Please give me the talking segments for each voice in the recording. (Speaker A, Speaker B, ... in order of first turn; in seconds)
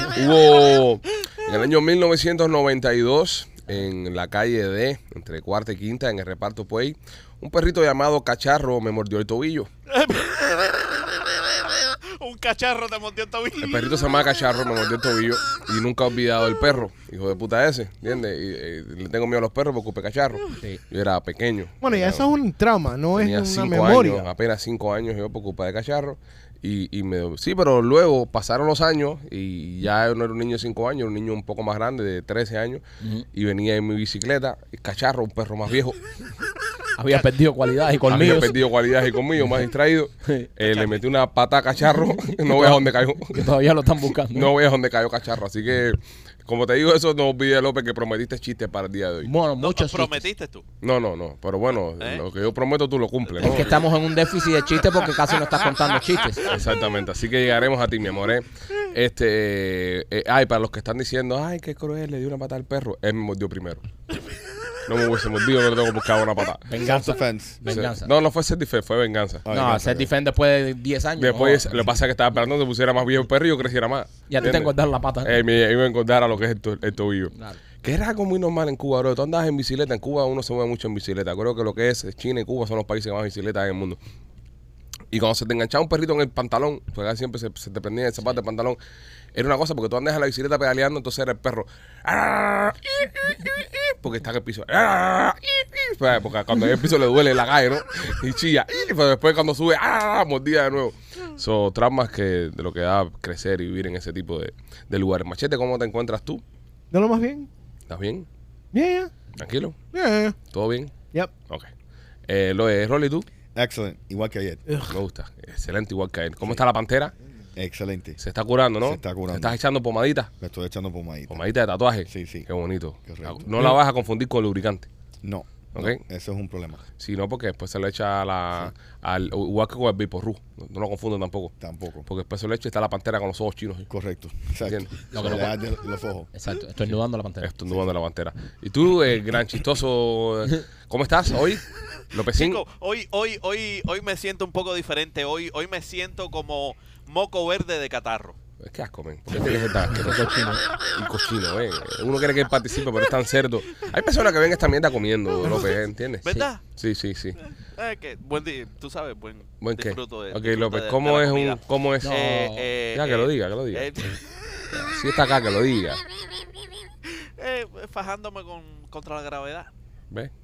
Speaker A: 0.1-9.7, 13.6-22.3, 23.1-36.0, 38.1-43.4, 44.3-49.3, 50.8-53.8, 56.4-63.8, 64.8-66.9, 67.6-69.4, 71.2-84.0, 85.1-88.8, 89.3-106.4, 107.9-108.3, 109.4-109.8, 110.5-110.9, 112.3-113.3, 114.9-117.1, 118.2-120.3, 121.3-124.9, 127.0-131.5, 132.1-133.9, 134.6-135.4, 137.4-142.6, 148.6-157.4, 159.6-162.1, 162.9-163.9, 164.7-166.0
Speaker B: 9.9-14.2, 40.6-41.1, 49.6-50.6, 52.0-52.3, 53.4-53.8, 142.3-148.4, 155.4-156.6, 157.8-164.6, 167.4-169.7
Speaker C: 21.8-24.3, 106.9-107.5, 108.7-109.1, 109.9-110.4, 114.7-114.9
Speaker D: 33.0-33.3, 37.0-38.6, 40.2-40.5, 42.3-44.5, 49.2-50.3, 53.4-56.6, 66.7-68.1, 69.5-71.7, 74.3-75.4, 77.3-77.6, 135.1-135.6, 136.3-137.5, 149.8-150.7, 162.0-162.7
Speaker E: 66.8-67.6, 69.4-70.1, 113.5-114.6, 117.5-118.2, 118.8-119.6, 120.4-121.4, 122.0-122.5, 123.0-123.5, 125.2-126.8, 131.6-132.1, 133.9-136.3